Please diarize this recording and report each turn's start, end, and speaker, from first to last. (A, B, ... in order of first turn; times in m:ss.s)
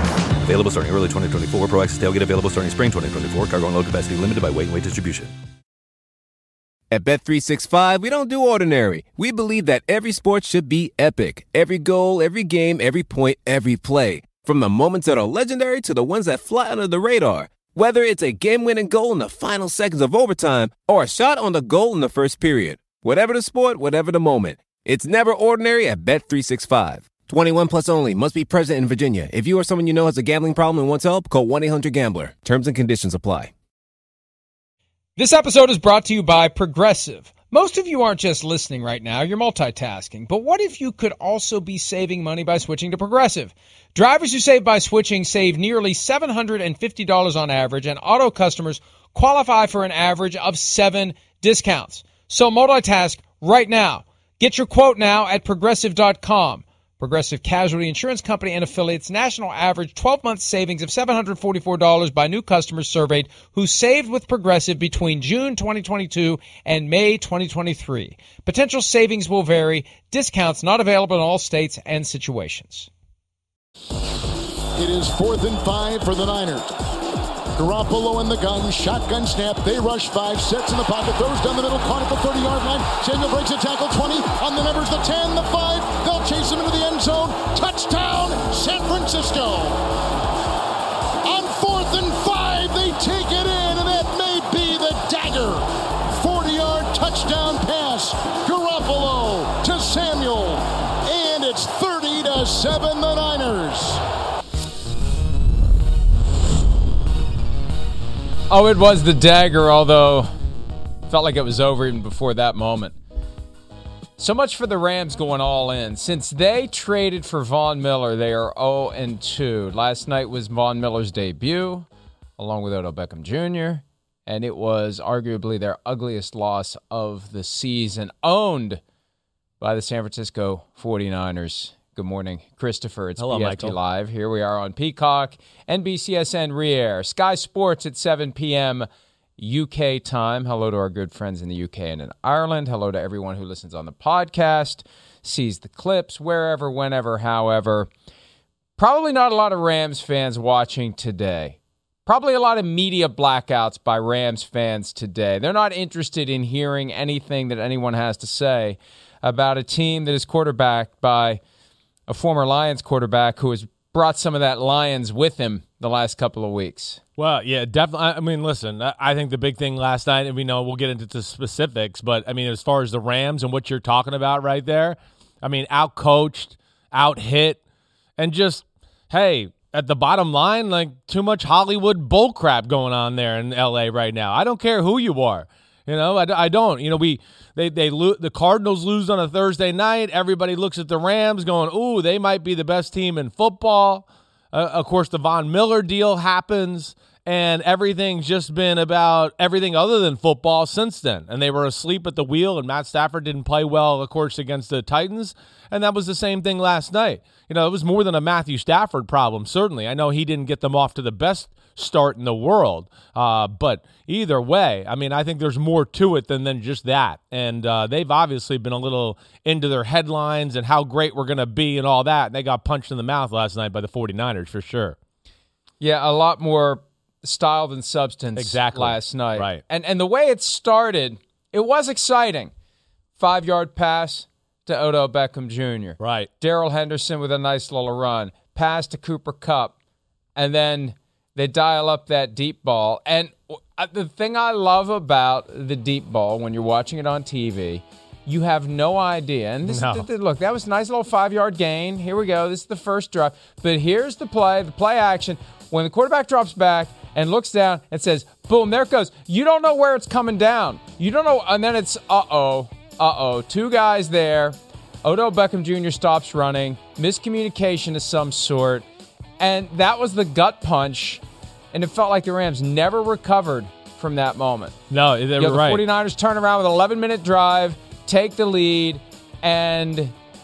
0:00.4-0:05.3 A
0:06.9-0:33.5 B
0:35.2-1:12.9 C
1:14.8-1:16.7 D
1:17.6-1:29.8 D
1:31.2-1:44.0 D
1:48.5-1:50.3 C
1:51.1-1:52.9 C
1:54.2-2:01.9 C
2:02.4-2:08.8 C
2:09.6-2:18.9 C
2:13.2-2:13.7 E
2:19.4-2:27.9 C
2:28.8-2:41.4 C
2:42.1-2:47.0 C
2:47.2-2:57.6 E
2:58.2-3:45.0 E
3:45.8-3:52.5 C
3:48.4-3:49.6 E
3:53.2-3:59.7 C
3:56.0-3:56.3 E
4:00.4-4:28.8 C
4:09.6-4:10.0 E
4:29.4-4:31.2 C
4:31.7-4:34.8 C
4:34.9-4:35.8 E
4:35.4-4:40.1 C